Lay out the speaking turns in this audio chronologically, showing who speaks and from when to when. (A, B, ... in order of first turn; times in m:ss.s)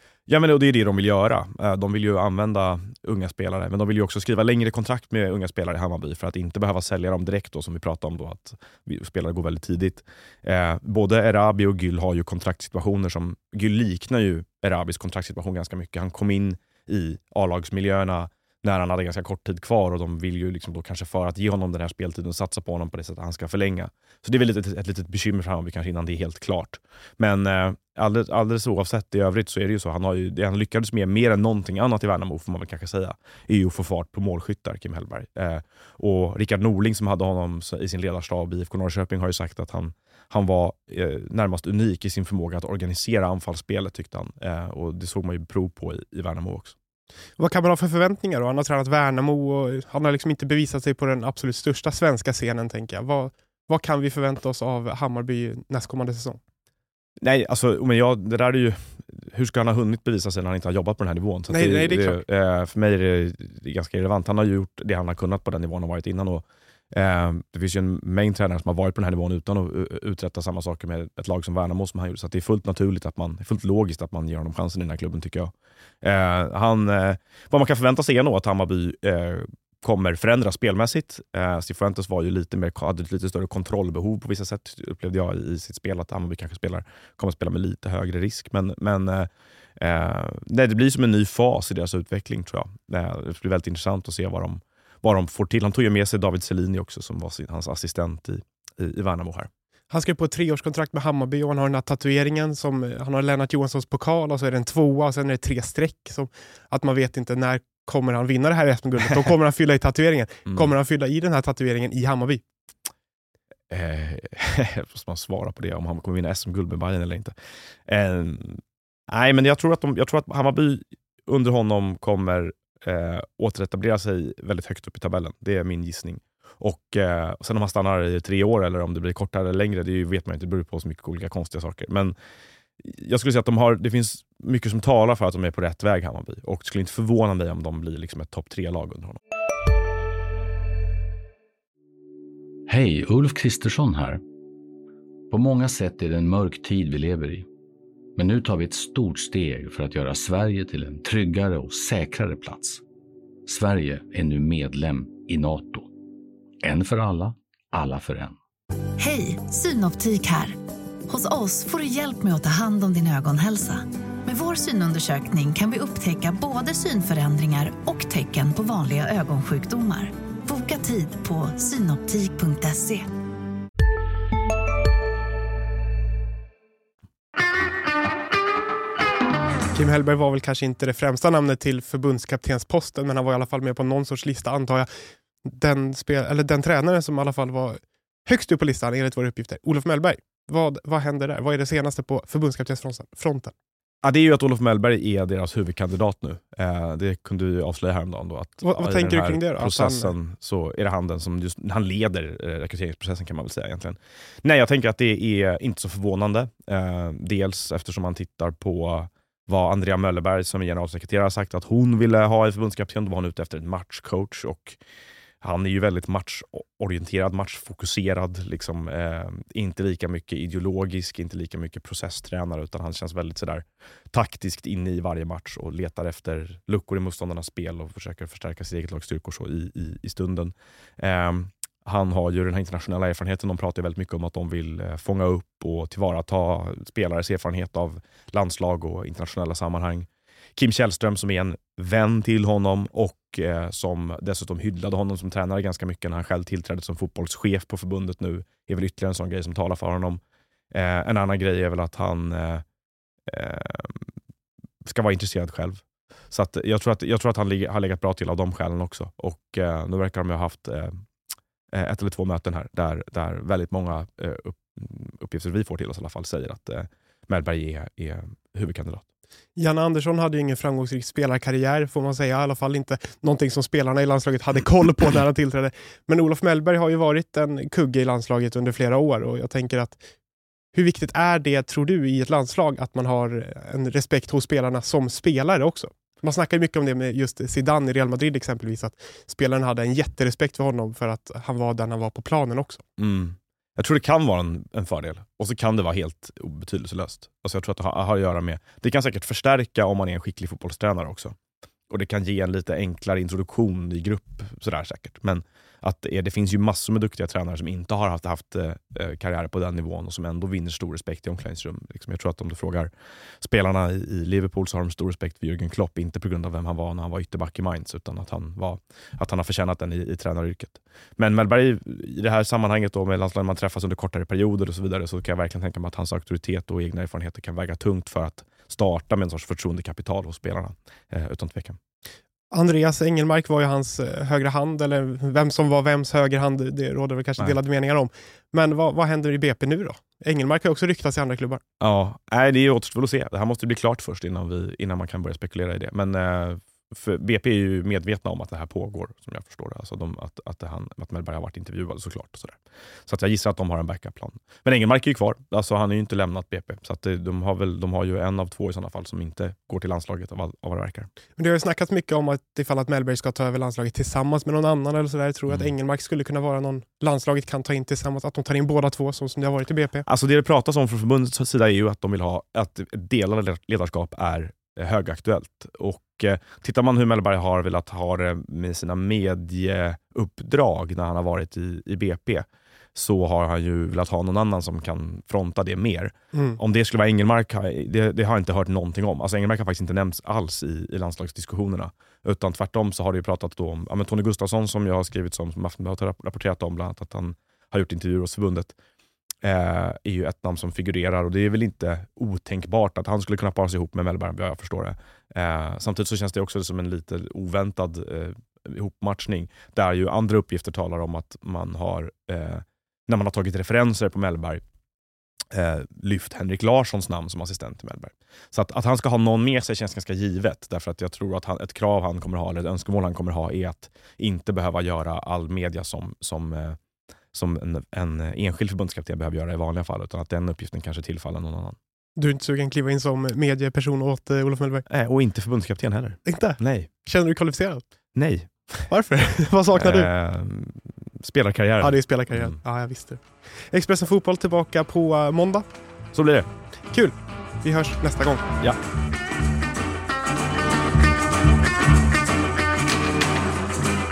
0:00.3-0:46.7 A
0:47.4-0:56.4 B
0:57.2-1:39.5 A
1:01.5-1:02.2 B
1:39.9-1:52.4 B
1:53.7-1:57.3 A
1:57.9-2:12.1 A
2:12.8-2:19.2 A
2:22.7-2:24.2 C
2:25.3-2:27.5 C
2:28.2-2:32.8 C
2:33.4-2:35.9 C
2:36.6-2:38.4 C
2:39.0-2:40.6 D
2:41.1-2:53.1 D
2:59.7-3:04.9 B
3:05.4-3:13.5 B
3:14.0-3:34.8 A
3:18.6-3:20.1 B
3:35.4-4:10.2 A
4:10.7-4:12.6 A
4:13.3-4:14.0 A
4:14.8-4:20.9 A
4:21.7-4:29.0 A
4:29.6-4:40.0 B
4:40.7-4:52.8 B
4:53.0-5:01.3 A
5:01.9-5:12.9 A
5:13.4-5:31.8 A
5:32.5-5:41.6 B
5:41.8-6:01.1 A
6:01.4-6:10.0 B
6:10.1-6:22.4 A
6:22.9-6:38.7 A
6:26.3-6:26.6 B
6:39.4-6:54.6 A
6:55.5-7:06.8 A
7:07.3-7:11.8 A
7:12.2-7:14.8 B
7:14.9-7:16.9 A
7:16.2-7:17.8 B
7:18.1-7:18.9 A
7:18.9-7:20.1 B
7:19.7-7:22.6 A
7:21.8-7:25.6 B
7:26.1-7:26.5 A
7:26.9-7:28.4 B